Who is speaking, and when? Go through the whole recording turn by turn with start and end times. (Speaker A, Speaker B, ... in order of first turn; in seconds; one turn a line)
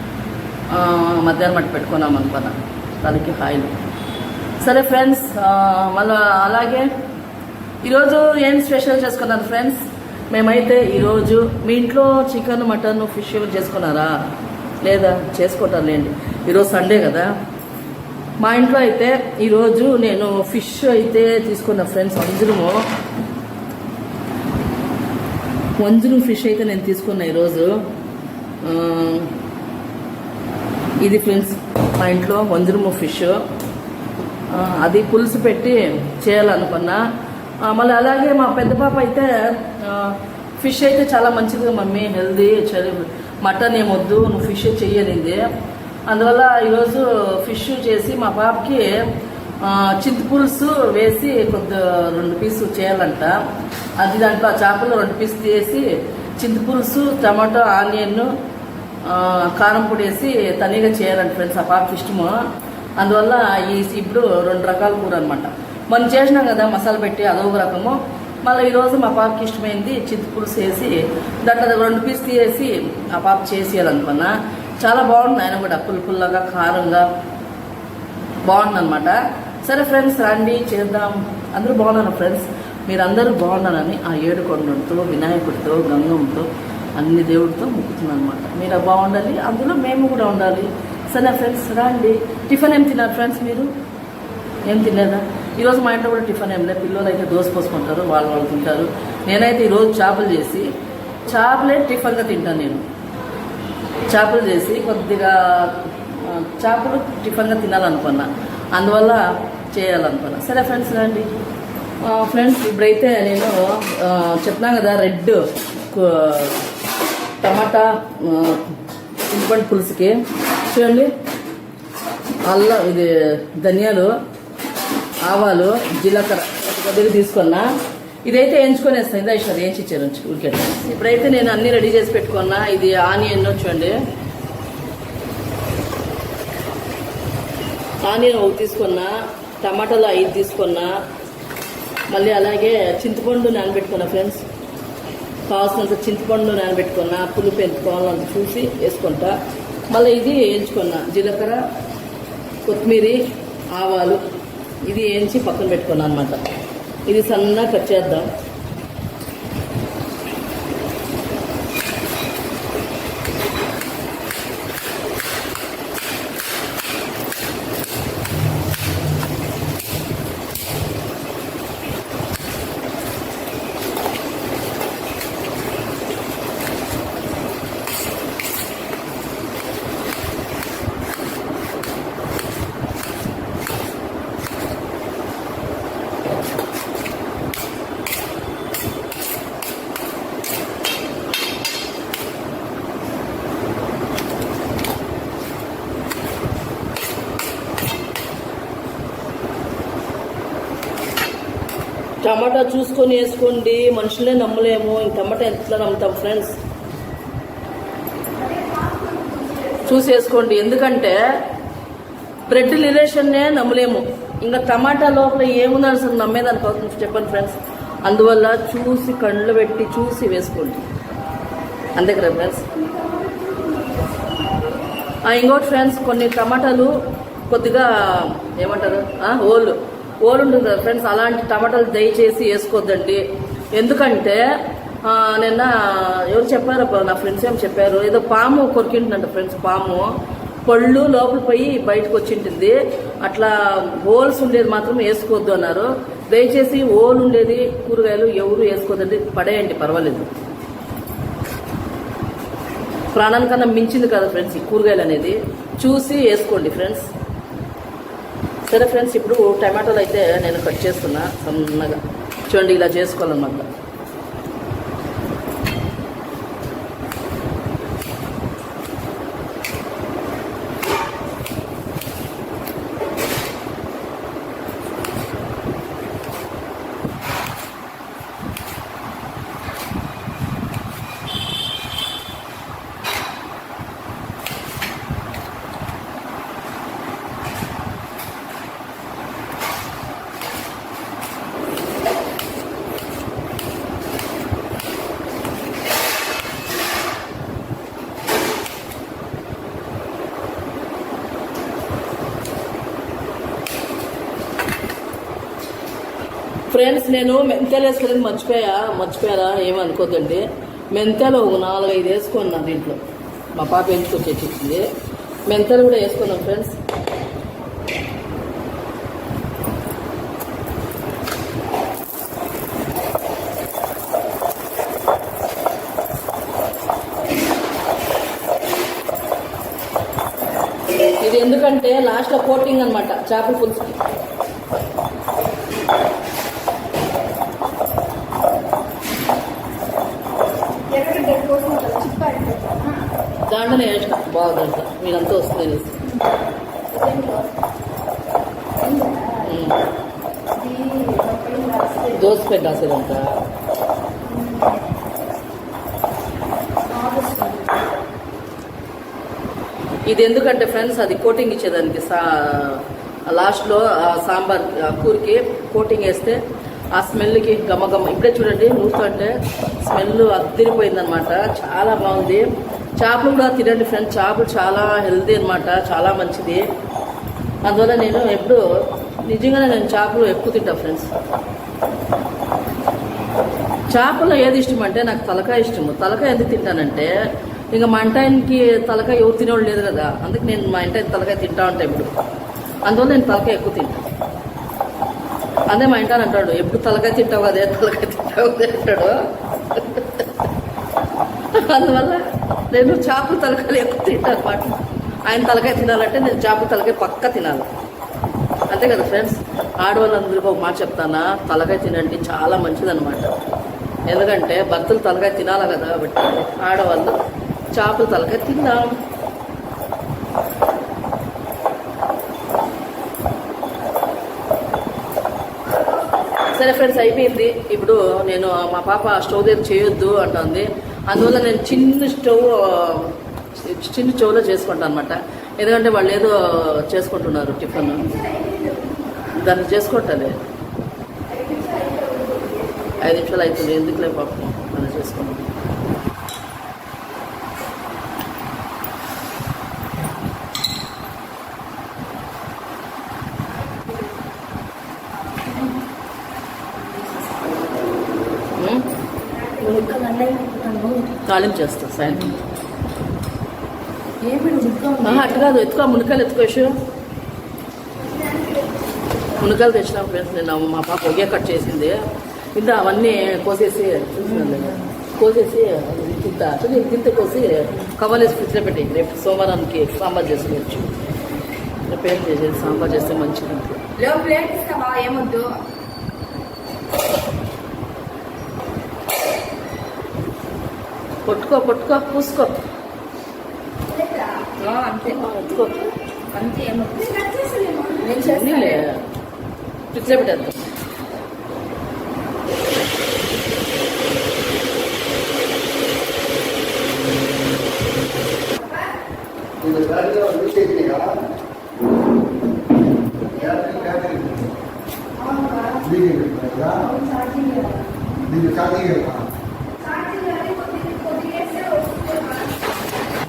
Speaker A: 0.7-3.7
Speaker A: 4.6-6.9
Speaker A: 7.8-9.8
Speaker A: 10.3-14.1
Speaker A: 14.8-17.3
Speaker A: 18.4-22.8
Speaker A: 25.8-27.8
Speaker A: 28.6-29.3
Speaker A: 31.0-33.4
Speaker A: 34.5-37.0
Speaker A: 37.6-45.4
Speaker A: 46.1-49.1
Speaker A: 49.6-53.4
Speaker A: 54.0-55.9
Speaker A: 56.4-58.3
Speaker A: 59.1-62.4
Speaker A: 63.0-77.0
Speaker A: 78.5-93.7
Speaker A: 94.7-100.7
Speaker A: 101.3-102.8
Speaker A: 104.1-111.3
Speaker A: 112.0-116.6
Speaker A: 117.4-118.7
Speaker A: 119.3-120.2
Speaker A: 120.7-121.1
Speaker A: 122.5-124.2
Speaker A: 125.2-127.7
Speaker A: 128.3-134.0
Speaker A: 138.0-141.0
Speaker A: 142.1-144.4
Speaker A: 145.5-149.4
Speaker A: 149.9-151.6
Speaker A: 152.7-153.2
Speaker A: 153.7-154.2
Speaker A: 154.8-156.4
Speaker A: 157.1-158.3
Speaker A: 202.2-206.5
Speaker B: 208.4-209.9
Speaker A: 209.8-211.2
Speaker A: 212.5-220.8
Speaker A: 222.0-222.7
Speaker B: 222.8-224.7
Speaker A: 225.3-226.9
Speaker A: 227.5-233.2
Speaker A: 233.8-234.4
Speaker A: 235.0-240.1
Speaker A: 240.7-250.3
Speaker A: 253.1-257.1
Speaker A: 258.7-263.7
Speaker A: 306.7-313.0
Speaker A: 313.6-314.9
Speaker A: 315.5-316.7
Speaker A: 331.2-334.0
Speaker B: 340.9-343.0
Speaker A: 343.5-346.0
Speaker B: 346.1-347.6
Speaker B: 348.8-349.7
Speaker A: 349.4-349.8
Speaker B: 350.5-352.4
Speaker A: 352.1-353.3
Speaker B: 354.2-354.8
Speaker B: 356.9-357.9
Speaker A: 360.1-366.4
Speaker A: 366.9-372.5
Speaker A: 373.0-376.6
Speaker A: 377.6-378.6
Speaker A: 379.3-381.1
Speaker A: 383.9-387.1
Speaker A: 387.7-392.1
Speaker A: 392.9-394.0
Speaker A: 395.7-400.3
Speaker A: 401.5-407.7
Speaker A: 408.7-413.4
Speaker A: 414.1-417.1
Speaker A: 417.7-418.9
Speaker A: 426.5-438.1
Speaker B: 437.8-439.3
Speaker A: 439.3-440.4
Speaker B: 441.3-443.1
Speaker A: 443.0-445.4
Speaker B: 455.4-455.8
Speaker A: 458.6-458.9
Speaker B: 459.3-461.2
Speaker A: 461.2-462.4
Speaker B: 464.2-465.5
Speaker A: 465.0-466.8
Speaker B: 468.1-468.7
Speaker A: 469.4-480.9
Speaker B: 474.2-474.9
Speaker A: 481.9-483.8
Speaker B: 484.0-485.5
Speaker A: 491.3-492.6
Speaker B: 493.9-498.9
Speaker A: 495.0-495.8
Speaker A: 498.1-499.0
Speaker A: 499.9-500.6
Speaker C: 509.6-511.2
Speaker C: 513.3-514.5
Speaker B: 513.3-513.9
Speaker B: 515.2-515.9
Speaker C: 515.8-516.9
Speaker B: 516.8-518.2
Speaker C: 518.2-519.2
Speaker B: 519.8-522.6